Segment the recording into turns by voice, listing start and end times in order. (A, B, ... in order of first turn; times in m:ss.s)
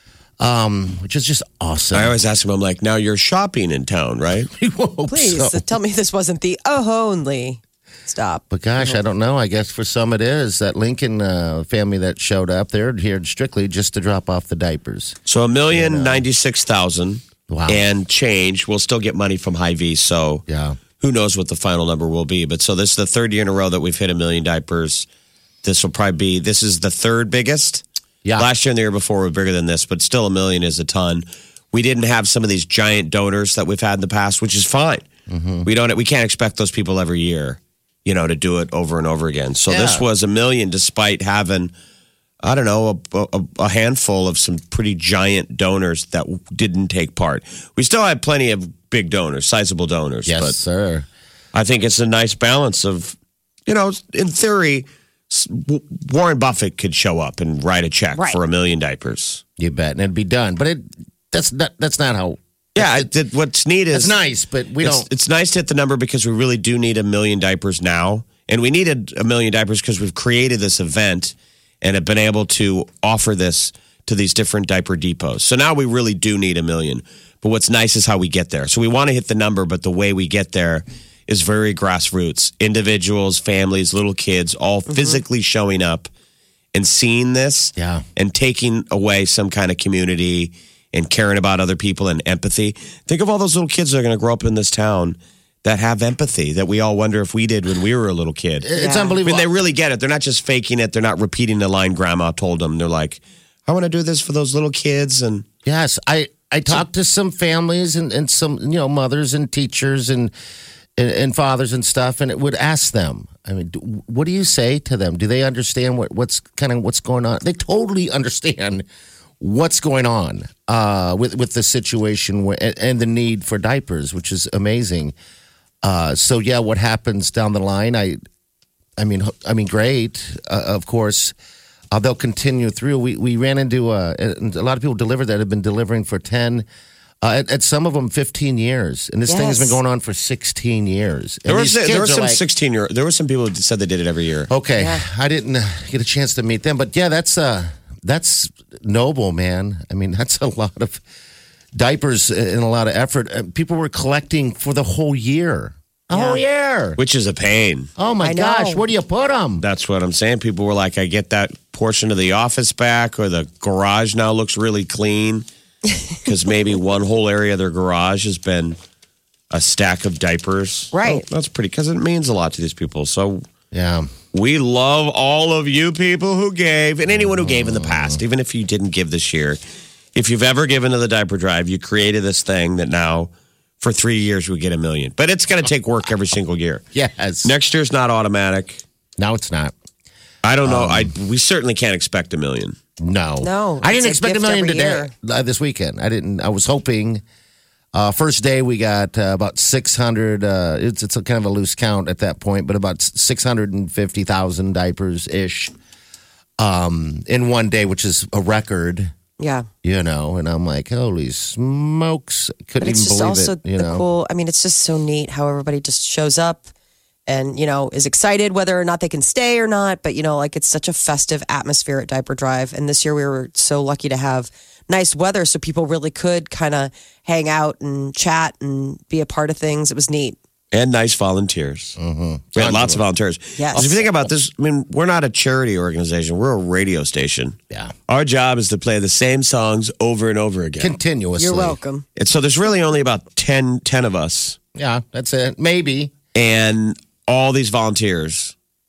0:00.4-0:02.2 A
0:01.9-0:04.5 B
0:04.5-0:05.6 A
0:05.1-0:09.0 C
0:08.5-0:15.2 A
0:15.3-0:20.4 B
0:15.7-0:16.2 A
0:17.5-0:17.8 A
0:20.5-0:20.8 A
0:21.0-0:25.1 B
0:25.6-0:27.8 B
0:28.4-0:35.0 B
0:35.3-0:35.7 A
0:35.6-0:41.7 B
0:39.7-0:40.1 A
0:42.4-0:50.6 B
0:50.3-0:51.1 A
0:51.5-0:53.2 B
0:53.7-0:59.4 B
0:59.6-1:03.1 A
1:02.8-1:04.1 B
1:03.9-1:05.1 A
1:04.8-1:26.1 B
1:24.9-1:25.2 C
1:26.7-1:38.7 B
1:27.8-1:28.0 A
1:38.6-1:39.5 A
1:38.8-1:39.2 C
1:39.2-1:45.4 B
1:45.6-1:50.3 A
1:51.0-1:58.9 A
1:59.4-2:05.1 A
2:05.8-2:08.2 A
2:09.0-2:11.4 A
2:11.9-2:16.7 A
2:17.2-2:22.4 A
2:19.3-2:19.8 C
2:21.5-2:24.5 B
2:24.5-2:31.0 A
2:24.8-2:25.0 C
2:31.8-2:37.0 A
2:36.1-2:36.4 C
2:37.0-2:37.9 B
2:38.0-2:39.6 A
2:38.2-2:38.8 C
2:39.6-2:45.5 B
2:46.2-2:48.8 B
2:49.5-2:53.4 B
2:50.9-2:51.2 C
2:53.7-2:54.1 A
2:54.3-2:59.6 B
2:57.1-2:58.2 A
3:00.2-3:06.8 B
3:06.9-3:07.5 A
3:07.4-3:08.8 B
3:09.2-3:09.7 A
3:10.4-3:12.8 B
3:10.6-3:11.1 A
3:13.0-3:17.2 A
3:13.4-3:15.1 C
3:17.9-3:25.7 A
3:26.6-3:29.1 A
3:29.4-3:29.7 C
3:29.8-3:34.0 A
3:32.8-3:36.7 C
3:37.3-3:50.4 C
3:50.7-3:52.0 B
3:52.0-3:53.0 A
3:52.6-3:57.6 B
3:53.6-3:54.0 C
3:58.1-4:01.0 B
4:00.8-4:01.8 A
4:01.4-4:02.0 C
4:02.2-4:04.6 B
4:04.8-4:06.2 A
4:06.3-4:08.5 B